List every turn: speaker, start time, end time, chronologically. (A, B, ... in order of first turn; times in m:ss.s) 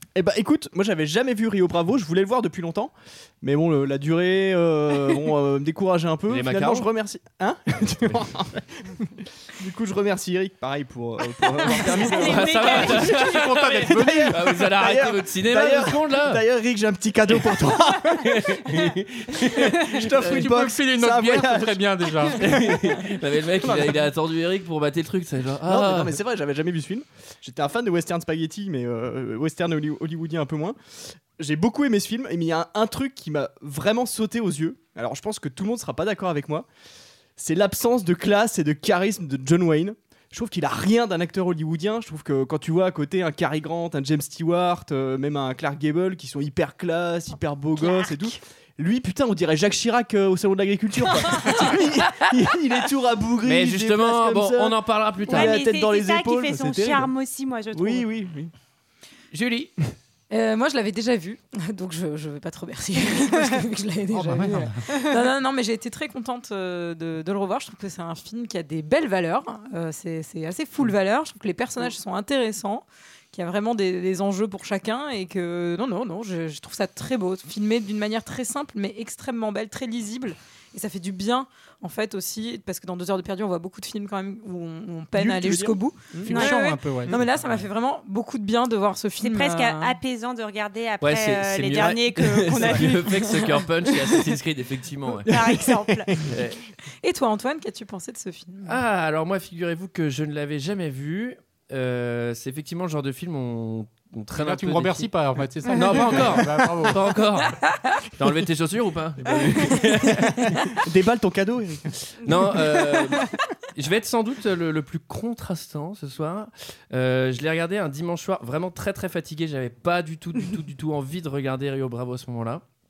0:00.2-0:13.1 A
0:06.3-0:06.9 B
0:11.8-0:13.1 C
0:12.2-0:16.4 B
0:12.9-0:14.4 D
0:13.7-0:22.7 A
0:18.0-0:20.0 B
0:20.1-0:22.4 D
0:22.4-0:26.2 B
0:23.6-0:24.0 A
0:25.6-0:30.8 A
0:31.4-0:36.7 A
0:37.4-0:57.1 A
0:53.4-0:55.6 B
0:55.3-0:58.1 C
0:57.7-0:58.5 A
0:59.3-0:59.7 B
1:00.3-1:30.0 E
1:04.1-1:04.8 D
1:25.1-1:26.5 A
1:26.2-1:27.6 D
1:26.3-1:26.6 C
1:27.1-1:27.3 A
1:29.2-1:34.1 C
1:31.0-1:35.3 B
1:32.4-1:33.0 A
1:35.2-1:36.2 A
1:35.3-1:36.1 C
1:36.3-1:36.6 B
1:37.0-1:38.8 E
1:38.6-1:45.1 B
1:44.4-1:47.1 D
1:45.7-1:47.6 B
1:48.1-1:50.7 B
1:50.8-1:51.9 A
1:52.2-2:02.6 B